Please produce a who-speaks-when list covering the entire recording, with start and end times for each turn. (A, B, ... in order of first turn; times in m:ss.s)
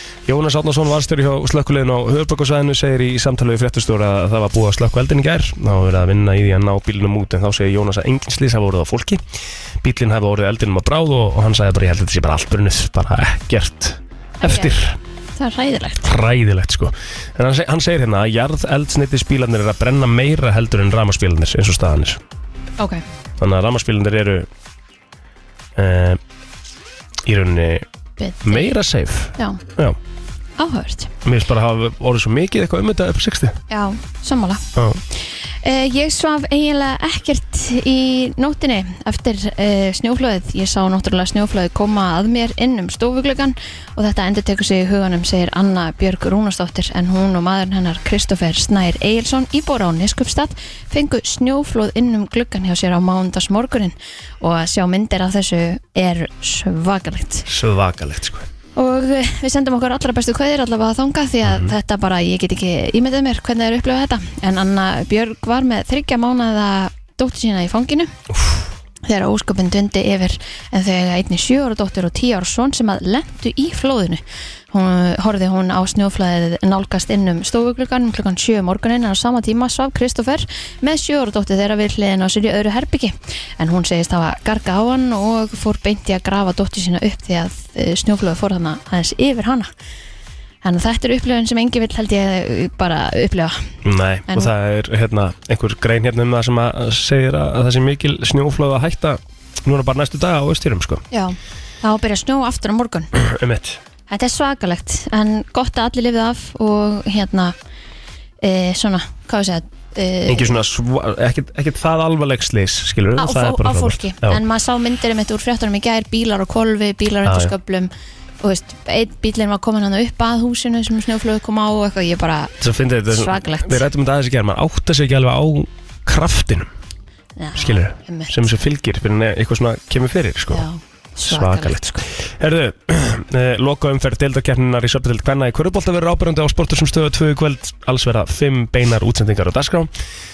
0:00.3-0:09.2 A
0:09.8-0:15.0 A
0:14.4-0:14.8 B
0:15.4-0:16.0 B
0:16.0-0:22.2 A
0:23.4-0:24.5 A
0:25.8-0:26.2 A
0:27.2-0:27.9 A
0:28.2-0:28.7 B
0:28.4-0:30.0 A
0:29.4-0:29.6 B
0:30.6-0:31.1 B
0:31.2-0:33.6 A
0:33.7-0:34.6 B
0:34.8-0:35.0 A
0:35.6-0:57.5 B
0:57.5-0:58.5 A
0:58.8-1:08.1 B
1:01.4-1:01.7 A
1:09.1-1:29.7 B
1:30.6-1:33.7 B
1:33.8-1:41.0 A
1:41.1-1:43.1 B
1:43.2-1:43.8 A
1:44.1-1:47.5 B
1:48.4-1:50.6 B
1:50.3-1:54.4 A
1:53.2-2:03.9 B
1:57.2-1:57.5 A
2:02.6-2:06.7 A
2:07.4-2:08.4 B
2:07.6-2:10.7 A
2:10.5-2:12.0 B
2:11.3-2:19.9 A